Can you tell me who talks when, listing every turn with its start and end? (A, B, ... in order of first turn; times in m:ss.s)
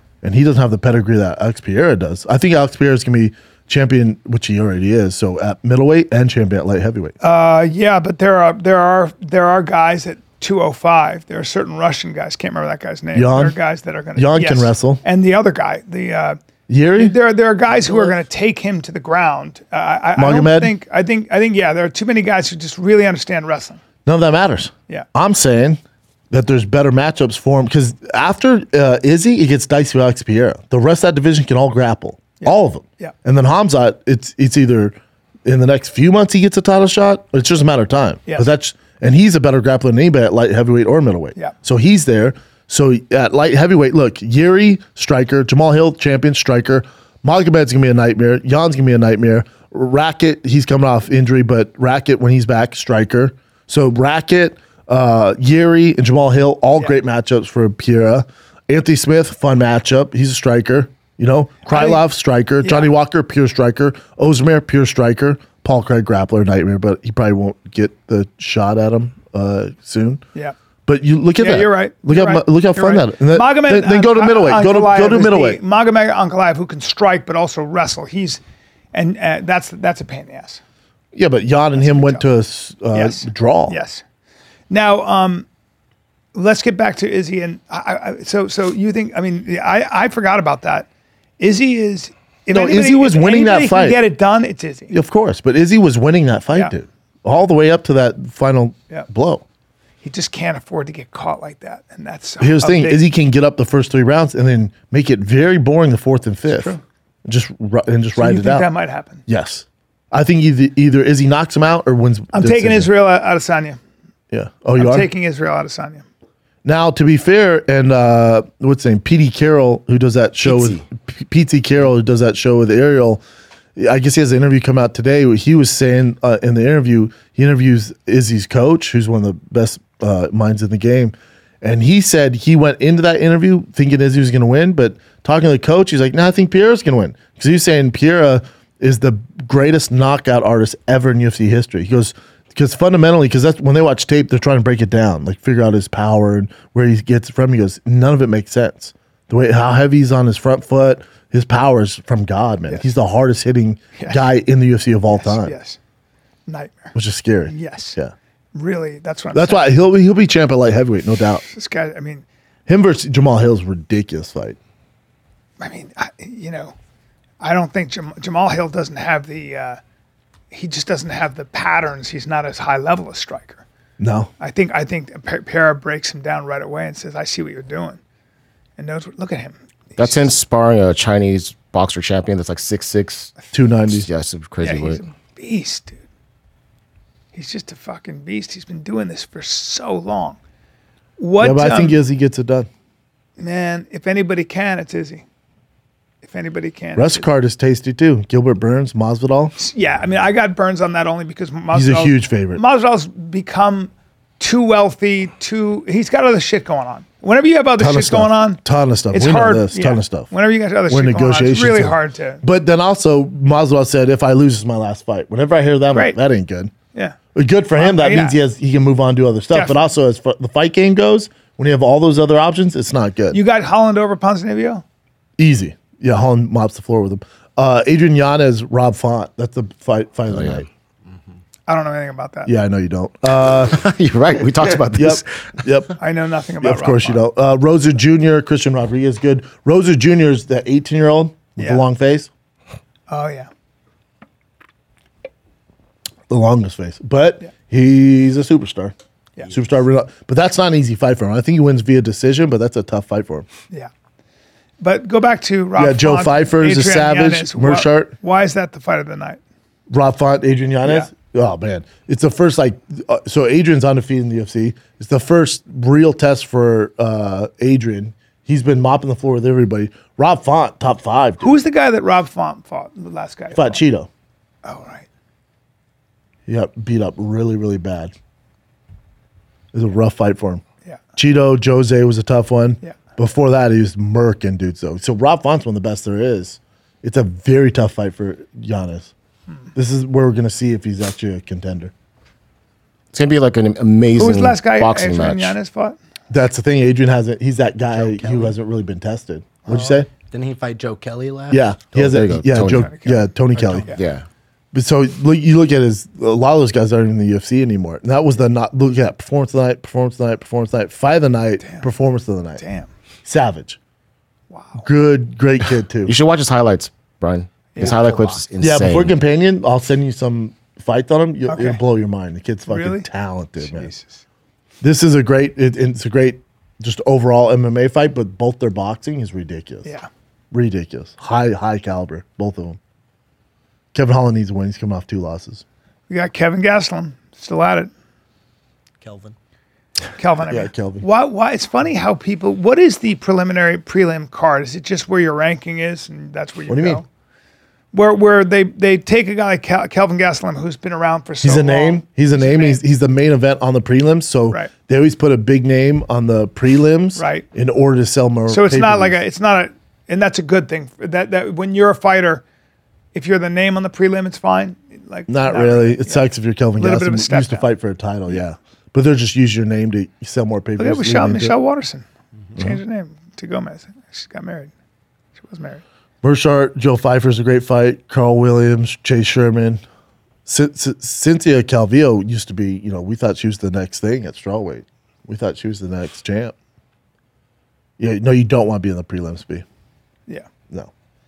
0:00.2-0:07.1 A
0:07.2-0:16.4 B
0:13.1-0:13.6 A
0:14.1-0:15.0 A
0:16.7-0:17.2 A
0:17.0-0:23.8 B
0:17.7-0:18.2 A
0:20.2-0:20.7 A
0:24.0-1:10.2 A
0:32.4-0:33.1 B
1:01.7-1:02.0 B
1:02.6-1:02.9 B
1:10.8-1:15.6 A
1:11.4-1:18.4 B
1:18.9-1:20.6 B
1:21.1-1:23.8 A
1:21.8-1:22.2 B
1:22.9-1:24.0 B
1:24.7-1:25.4 B
1:26.3-1:30.9 B
1:31.4-1:35.0 B
1:32.5-1:34.0 A
1:34.9-1:39.4 A
1:40.0-1:43.0 B
1:42.4-1:48.7 A
1:46.5-1:46.8 B
1:48.2-1:49.2 B
1:49.3-1:52.9 A
1:52.3-1:53.8 B
1:54.3-1:55.1 A
1:54.8-1:56.0 B
1:56.6-2:03.2 A
2:00.4-2:00.8 C
2:03.8-2:35.6 A
2:34.0-2:34.2 B
2:35.1-2:35.8 B
2:36.5-2:36.9 B
2:36.9-2:38.1 A
2:37.4-2:38.0 B
2:38.5-2:39.7 B
2:39.3-2:41.4 A
2:41.4-2:42.2 B
2:42.7-2:44.6 A
2:45.6-2:46.7 B
2:47.4-2:49.8 B
2:50.5-2:53.6 B
2:54.0-2:54.3 A
2:54.4-2:58.0 B
2:58.8-3:00.3 B
3:00.0-3:03.3 C
3:03.5-3:04.1 A
3:04.0-3:05.0 C
3:04.6-3:06.0 B
3:07.3-3:10.4 B
3:11.2-3:12.0 B
3:11.4-3:12.7 A
3:13.4-3:15.2 B
3:16.2-3:17.3 B
3:17.0-3:19.6 A
3:19.6-3:32.4 B
3:21.7-3:22.6 A
3:27.8-3:30.3 A
3:30.9-3:36.7 A
3:35.9-3:36.2 B
3:37.3-3:43.4 A
3:37.8-3:38.4 B
3:39.5-3:39.9 B
3:43.3-3:44.8 B
3:45.4-3:50.7 A
3:50.3-3:50.6 C
3:51.7-3:52.5 B
3:52.4-3:53.8 A
3:53.6-3:55.5 C
3:54.8-3:56.0 A
3:56.0-3:57.2 B
3:56.6-4:02.3 A
4:01.6-4:01.8 B
4:03.1-4:03.5 B
4:06.3-4:08.9 A
4:09.5-4:13.5 A
4:14.8-4:19.4 B
4:15.8-4:18.1 A
4:19.9-4:31.6 A
4:20.8-4:21.1 B
4:31.4-4:33.8 B
4:33.5-4:34.1 A
4:34.6-4:35.0 B
4:36.5-4:38.1 A
4:39.7-4:40.6 A
4:41.2-4:49.1 A
4:49.7-4:51.9 A
4:53.1-4:55.6 C
4:54.2-4:56.0 B
4:56.3-5:00.1 A
4:57.9-4:58.5 D
4:59.6-5:00.0 B
5:00.2-5:01.7 D
5:01.5-5:03.9 A
5:01.9-5:02.9 C
5:02.6-5:04.0 B
5:03.9-5:04.2 C
5:04.7-5:12.6 A
5:11.6-5:11.9 B
5:12.6-5:12.9 B
5:13.2-5:13.8 A
5:14.5-5:14.9 B
5:14.8-5:16.1 A
5:16.0-5:19.2 C
5:17.7-5:18.4 B
5:17.8-5:18.4 D
5:18.6-5:23.9 A
5:21.5-5:21.8 B
5:22.7-5:23.1 B
5:23.6-5:24.2 B
5:24.8-5:29.9 A
5:30.5-5:32.8 A
5:33.9-5:35.6 A
5:36.1-5:37.9 B
5:39.0-5:39.3 D
5:40.2-5:47.0 B
5:40.4-5:41.0 A
5:46.7-5:47.0 A
5:47.9-5:52.8 B
5:51.4-5:59.2 A
5:57.2-5:57.4 B
5:58.5-6:02.4 B
6:03.1-6:07.7 B
6:05.3-6:11.6 A
6:10.8-6:14.7 B
6:15.4-6:15.8 B
6:16.2-6:19.8 A
6:20.4-6:26.5 A
6:28.0-6:29.6 A